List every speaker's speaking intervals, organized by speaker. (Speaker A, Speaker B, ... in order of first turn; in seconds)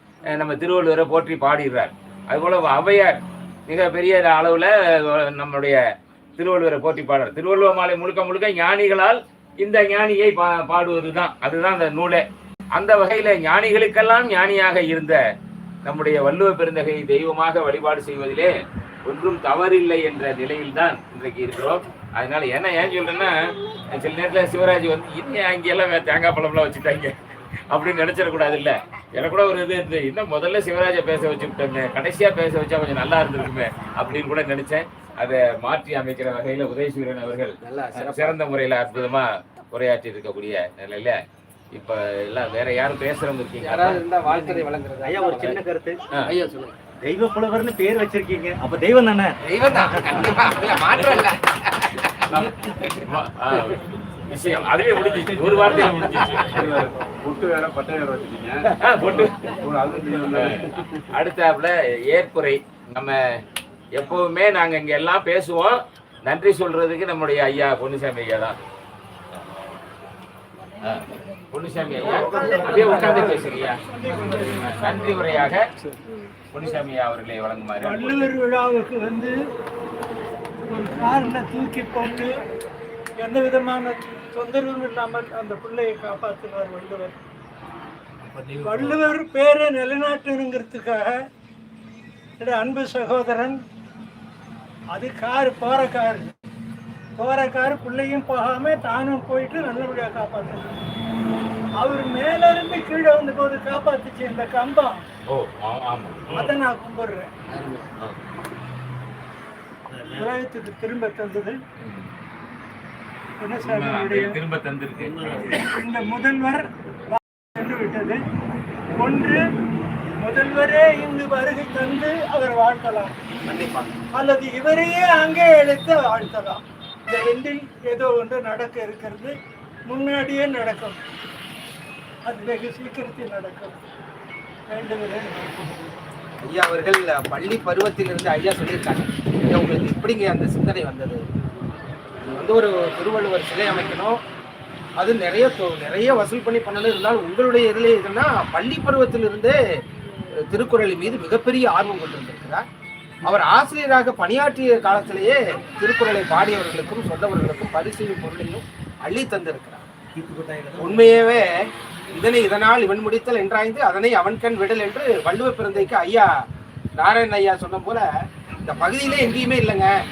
Speaker A: 0.3-5.8, 6.4-15.2, 15.8-18.5, 19.1-23.4, 23.9-27.2, 27.7-41.2, 41.7-44.0, 50.1-51.3, 52.3-56.7, 58.8-59.4, 60.2-63.2, 63.9-68.6, 70.8-73.8, 74.4-75.7, 76.5-78.3, 105.3-106.5, 111.8-112.1, 113.5-115.6
Speaker B: 37.6-38.4, 43.6-45.6, 46.3-46.8, 49.4-52.5, 107.5-107.9, 123.4-124.0, 136.4-141.2, 142.2-144.2, 145.0-149.6, 150.5-152.7, 153.2-159.8, 160.8-161.6, 162.1-166.3, 167.0-168.1, 168.7-169.9
Speaker C: 44.3-46.0, 47.0-50.4, 88.3-89.0, 160.2-161.4
Speaker D: 54.9-61.0
Speaker E: 72.0-75.4, 77.8-79.3, 80.7-82.3, 83.2-87.1, 88.6-91.2, 92.4-93.6, 94.9-96.3, 97.2-100.8, 101.8-105.0, 106.3-107.3, 110.2-111.6, 113.4-114.4, 115.5-118.2, 118.9-119.4, 120.2-123.2, 124.1-129.3, 129.9-131.0, 132.3-133.8, 134.7-135.9